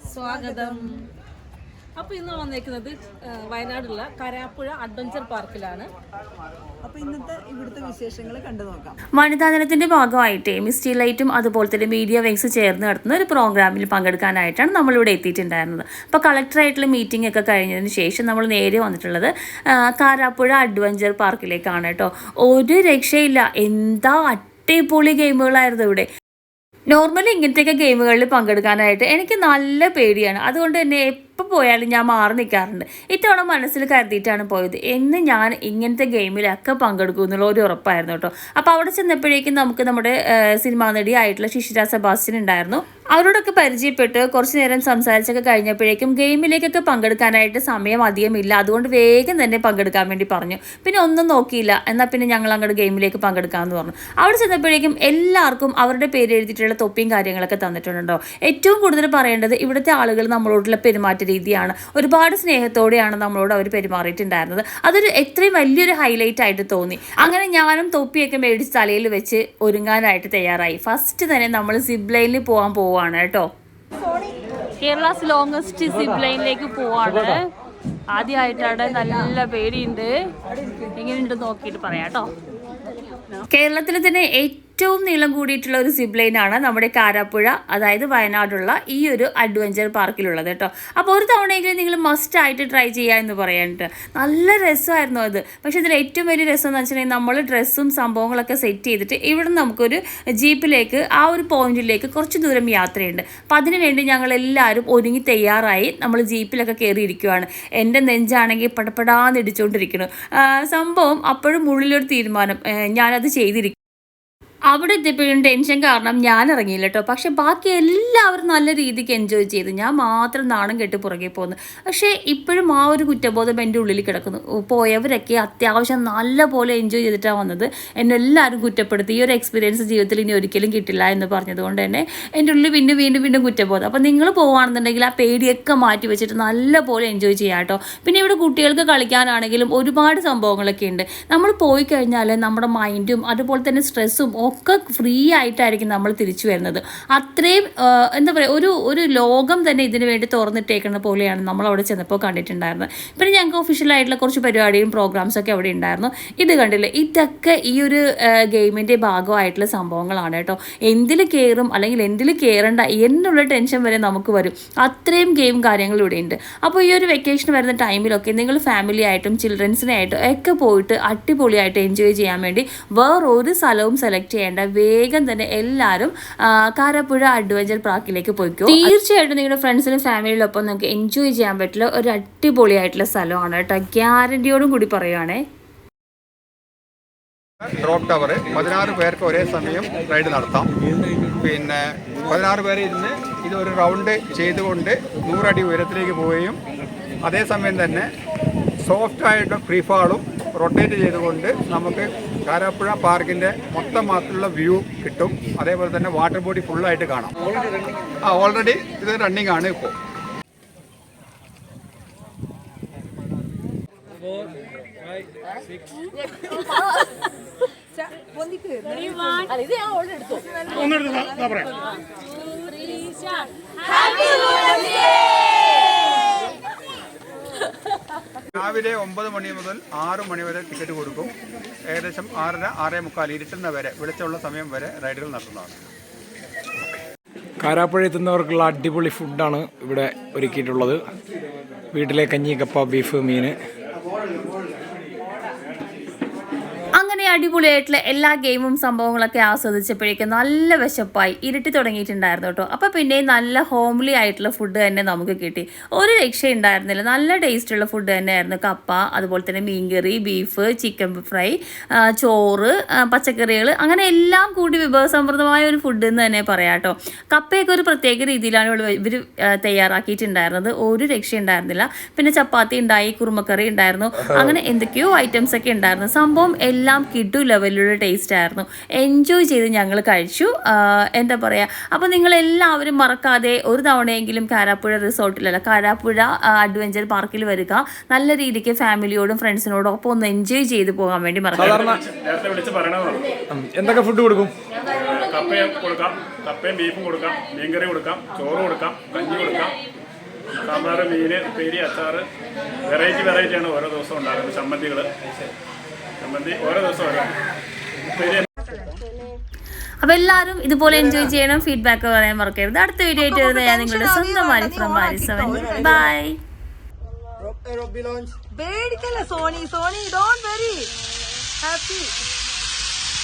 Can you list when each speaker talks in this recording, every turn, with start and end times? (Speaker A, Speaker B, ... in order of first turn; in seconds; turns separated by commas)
Speaker A: 0.1-0.8, Speaker B: 0.2-1.1, Speaker A: 1.9-5.9, Speaker B: 6.8-8.9, Speaker C: 9.2-19.3, Speaker C: 19.9-26.1, Speaker C: 26.9-73.5, Speaker C: 74.8-77.4, Speaker C: 78.1-80.1, Speaker C: 80.9-82.3, Speaker C: 83.5-113.8, Speaker C: 114.7-185.4, Speaker D: 187.7-190.7, Speaker D: 191.4-196.6, Speaker D: 197.2-198.1, Speaker D: 198.8-207.3, Speaker D: 208.3-210.0, Speaker B: 216.5-217.0, Speaker B: 217.9-219.5, Speaker A: 219.5-220.3, Speaker B: 220.5-221.9, Speaker A: 223.0-223.4, Speaker B: 223.8-225.8, Speaker D: 228.5-231.3, Speaker D: 231.9-235.8, Speaker E: 237.6-241.0, Speaker E: 241.9-243.5, Speaker C: 247.0-291.8, Speaker E: 291.6-292.0, Speaker F: 291.6-293.3, Speaker E: 293.5-294.5, Speaker F: 294.8-299.8, Speaker F: 300.6-302.2, Speaker F: 302.8-305.1, Speaker F: 306.2-307.4, Speaker F: 308.1-308.5, Speaker C: 310.0-316.4, Speaker B: 313.2-316.1, Speaker B: 318.5-320.9, Speaker B: 321.6-322.1